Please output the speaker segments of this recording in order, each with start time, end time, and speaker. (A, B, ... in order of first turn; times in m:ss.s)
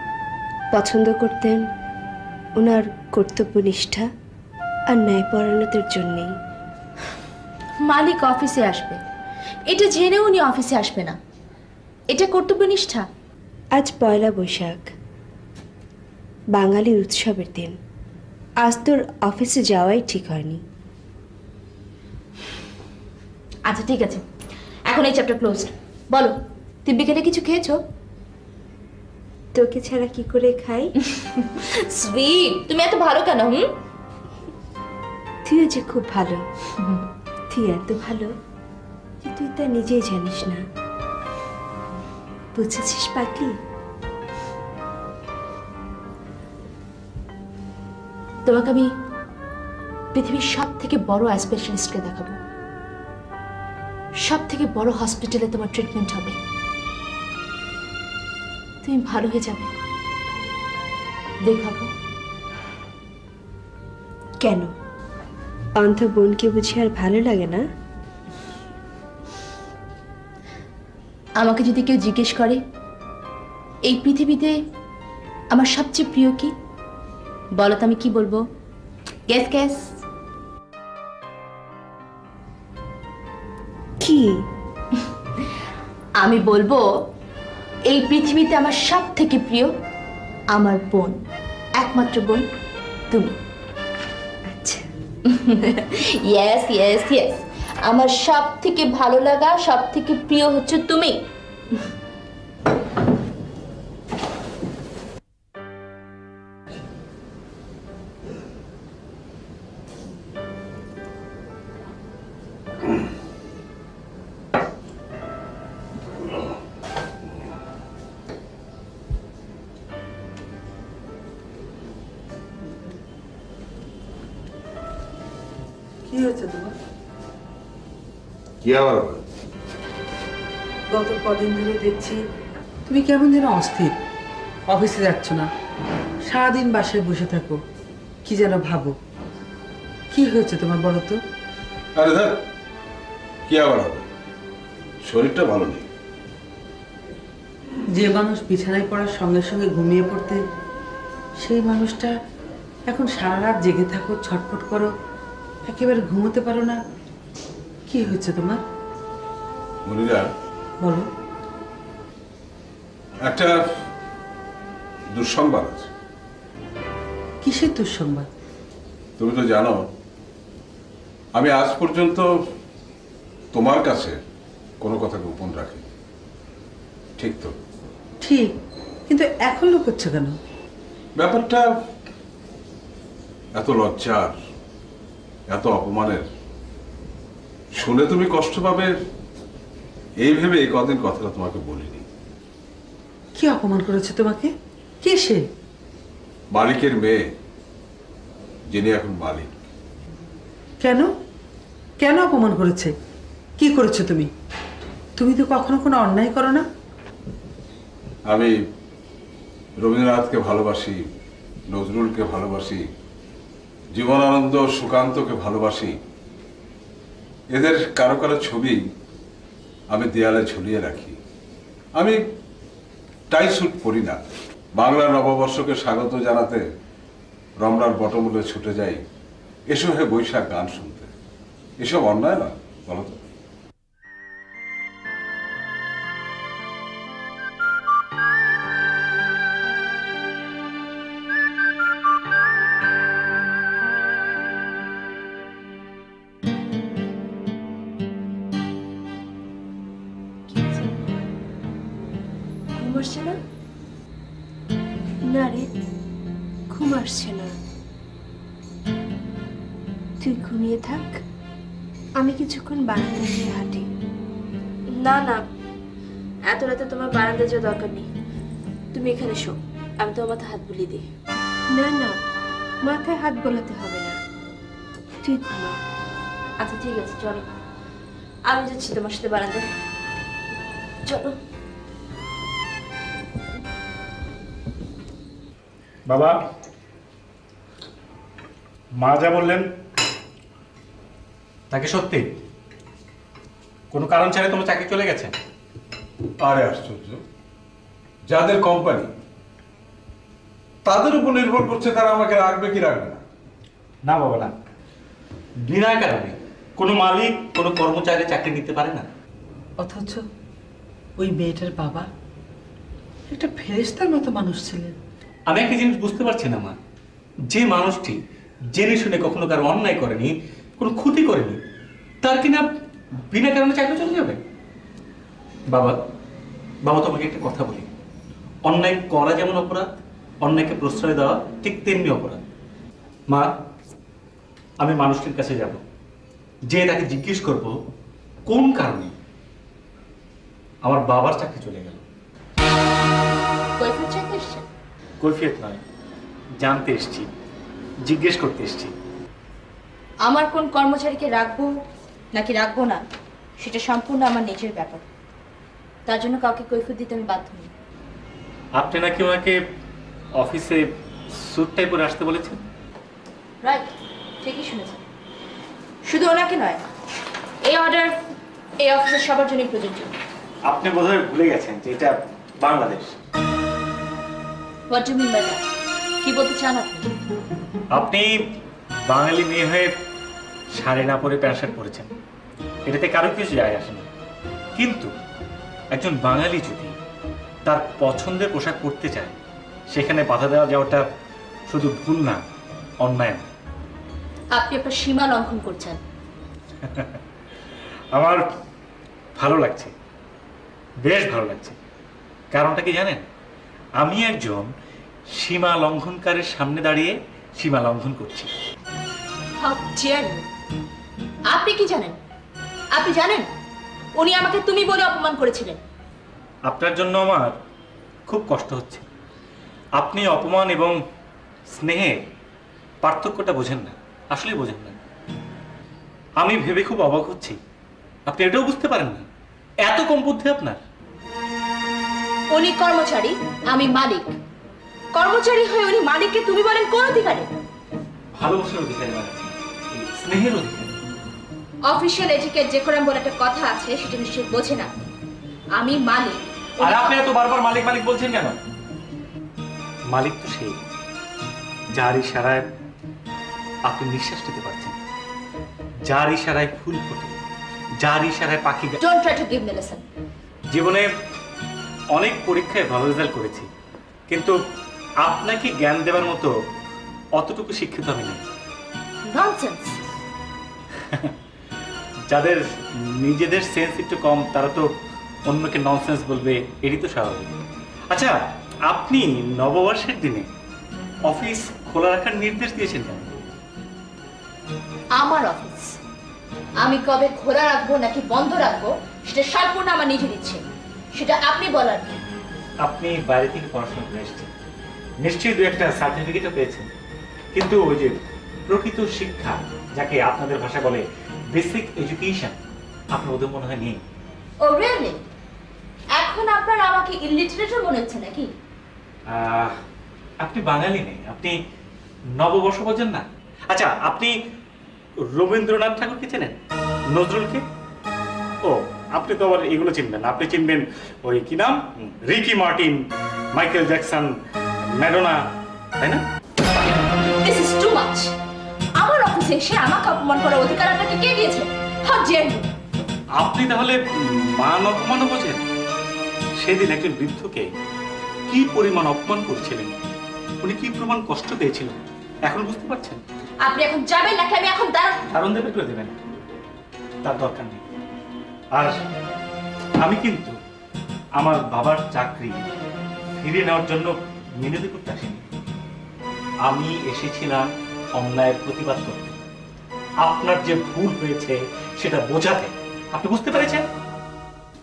0:00.7-0:01.6 A
0:02.6-0:04.1 A
0:04.9-0:06.3 A
0:07.8-0:09.0 B
0:09.7-0:11.2 B
0:12.1-0:13.0 B
0:13.8-0:14.8 A
0:16.5-0:17.8 A
0:18.6-0:20.6 A
0:23.6-0:24.2 B
0:24.9-0:27.8 B
0:29.5-0:30.9 A
0:31.0-0:33.6 B
0:35.5-0:36.4 A
0:36.8-0:37.0 B
0:37.5-0:38.3 A
0:39.2-0:40.6 A
0:42.5-0:43.6 A
0:48.4-0:48.9 B
0:50.1-0:52.4 B
0:54.2-0:56.4 B
0:58.8-0:59.7 B
1:01.4-1:01.9 B
1:04.4-1:04.7 A
1:05.8-1:07.6 A
1:11.4-1:12.6 B
1:13.8-1:14.5 B
1:15.5-1:16.5 B
1:17.6-1:18.4 B
1:19.3-1:20.0 B
1:24.0-1:24.4 A
1:26.2-1:26.8 B
1:27.9-1:29.7 B
1:30.5-1:31.2 B
1:31.8-1:32.4 B
1:34.5-1:34.9 A
1:35.2-1:41.2 B
2:06.0-2:06.7 C
2:08.6-2:09.2 D
2:10.9-2:12.2 C
2:12.8-2:13.9 C
2:14.7-2:15.5 C
2:16.2-2:17.6 C
2:18.2-2:18.9 C
2:20.1-2:21.2 C
2:22.0-2:22.4 D
2:23.5-2:24.1 D
2:25.0-2:25.9 D
2:27.9-2:30.4 C
2:31.4-2:32.1 C
2:32.9-2:34.9 C
2:35.7-2:36.8 C
2:37.9-2:38.6 C
2:39.8-2:40.3 D
2:40.8-2:41.1 C
2:43.2-2:43.6 D
2:45.1-2:45.9 D
2:47.4-2:48.3 C
2:49.2-2:49.9 D
2:51.3-2:52.3 D
2:53.5-2:54.2 D
2:54.8-2:55.8 D
2:57.2-2:57.6 D
2:58.2-2:58.5 C
2:59.1-3:00.4 C
3:01.2-3:01.8 D
3:03.5-3:04.4 D
3:05.5-3:06.3 D
3:07.8-3:09.0 D
3:10.2-3:12.0 D
3:13.3-3:15.4 C
3:16.5-3:17.3 D
3:18.7-3:19.5 D
3:20.8-3:21.1 C
3:22.0-3:22.9 C
3:23.6-3:24.3 C
3:25.2-3:26.6 C
3:28.3-3:28.6 D
3:29.8-3:31.0 D
3:31.7-3:32.9 D
3:33.9-3:36.0 D
3:37.5-3:38.9 D
3:39.9-3:41.2 D
3:42.0-3:42.2 D
3:43.3-3:44.2 D
3:44.7-3:46.6 D
3:47.6-3:49.0 D
3:49.7-3:51.1 D
3:51.8-3:53.2 D
4:10.5-4:11.1 A
4:12.8-4:13.3 B
4:15.3-4:15.7 A
4:16.7-4:17.5 A
4:20.2-4:21.2 A
4:22.2-4:23.9 A
4:24.9-4:25.4 B
4:26.5-4:28.1 B
4:28.9-4:31.0 B
4:31.7-4:32.2 A
4:32.8-4:34.2 A
4:35.2-4:35.8 A
4:36.6-4:37.4 B
4:38.4-4:39.6 B
4:41.0-4:41.4 B
4:46.1-4:46.4 E
4:49.0-4:49.7 E
4:51.7-4:52.4 E
4:53.9-4:55.3 E
4:56.4-4:57.2 D
4:58.3-4:59.1 D
5:00.8-5:03.2 D
5:04.0-5:04.6 E
5:05.6-5:09.1 E
5:09.8-5:10.2 C
5:11.2-5:12.1 C
5:13.3-5:14.9 C
5:15.5-5:16.8 E
5:17.5-5:18.2 E
5:18.7-5:21.6 E
5:22.2-5:22.7 E
5:23.3-5:24.4 E
5:25.7-5:26.0 E
5:26.8-5:27.9 E
5:28.7-5:32.4 E
5:34.8-5:35.8 E
5:36.7-5:37.8 E
5:38.5-5:39.1 E
5:40.8-5:42.0 E
5:43.8-5:44.7 B
5:45.2-5:45.8 E
5:46.6-5:47.3 E
5:48.0-5:48.9 E
5:50.2-5:51.7 B
5:52.3-5:53.0 B
5:53.6-5:55.0 B
5:56.0-5:57.7 B
5:58.8-5:59.6 E
6:00.4-6:02.6 E
6:03.6-6:03.9 B
6:04.4-6:05.0 B
6:06.0-6:06.9 B
6:07.6-6:08.2 B
6:08.8-6:10.2 B
6:10.7-6:13.2 E
6:14.9-6:15.6 B
6:16.2-6:17.1 B
6:17.9-6:18.4 E
6:19.1-6:20.0 E
6:20.7-6:22.1 E
6:22.9-6:24.1 E
6:24.8-6:25.1 E
6:25.9-6:26.9 E
6:27.6-6:29.4 E
6:29.9-6:31.0 E
6:31.7-6:32.4 E
6:33.0-6:33.4 E
6:34.5-6:36.0 B
6:36.8-6:37.2 E
6:38.1-6:38.4 E
6:39.4-6:39.9 E
6:41.0-6:41.8 E
6:42.5-6:43.2 E
6:44.0-6:44.7 E
6:45.3-6:48.5 E
6:49.6-6:50.4 B
6:51.5-6:52.2 B
6:52.9-6:53.5 B
6:54.2-6:55.8 B
6:56.7-6:57.5 E
6:58.3-6:59.0 E
7:00.0-7:01.0 E
7:01.7-7:02.3 E
7:03.0-7:05.0 E
7:06.4-7:07.6 E
7:08.3-7:09.2 E
7:09.8-7:10.8 E
7:12.5-7:14.3 B
7:15.1-7:17.5 B
7:18.4-7:20.9 E
7:21.8-7:25.0 B
7:25.8-7:27.2 B
7:26.8-7:28.6 E
7:30.1-7:30.8 E
7:31.9-7:32.7 E
7:33.9-7:35.0 E
7:36.1-7:37.4 E
7:38.0-7:39.0 E
7:39.0-7:40.0 B
7:40.7-7:41.1 E
7:42.1-7:43.7 E
7:44.3-7:44.6 E
7:45.2-7:46.5 E
7:47.4-7:48.4 E
7:49.2-7:50.0 B
7:51.0-7:51.3 E
7:52.3-7:54.9 E
7:55.5-7:57.5 E
7:58.1-8:00.5 E
8:01.3-8:03.4 E
8:05.1-8:06.0 B
8:06.8-8:12.2 B
8:12.8-8:14.5 E
8:15.2-8:16.9 E
8:17.5-8:22.6 E
8:23.1-8:24.0 E
8:24.6-8:25.2 B
8:26.1-8:28.5 B
8:29.3-8:29.8 E
8:30.4-8:31.6 E
8:32.3-8:34.3 E
8:35.3-8:36.6 E
8:37.1-8:37.6 E
8:38.6-8:43.0 E
8:43.5-8:45.4 E
8:47.4-8:48.3 B
8:49.0-8:52.7 B
8:53.4-8:55.6 E
8:56.6-8:57.7 E
8:58.5-9:00.0 E
9:00.6-9:03.2 E
9:03.6-9:05.2 B
9:05.3-9:06.2 E
9:07.2-9:07.8 E
9:10.0-9:10.6 E
9:11.4-9:12.6 E
9:13.4-9:15.4 E
9:16.6-9:19.4 E
9:20.2-9:23.8 E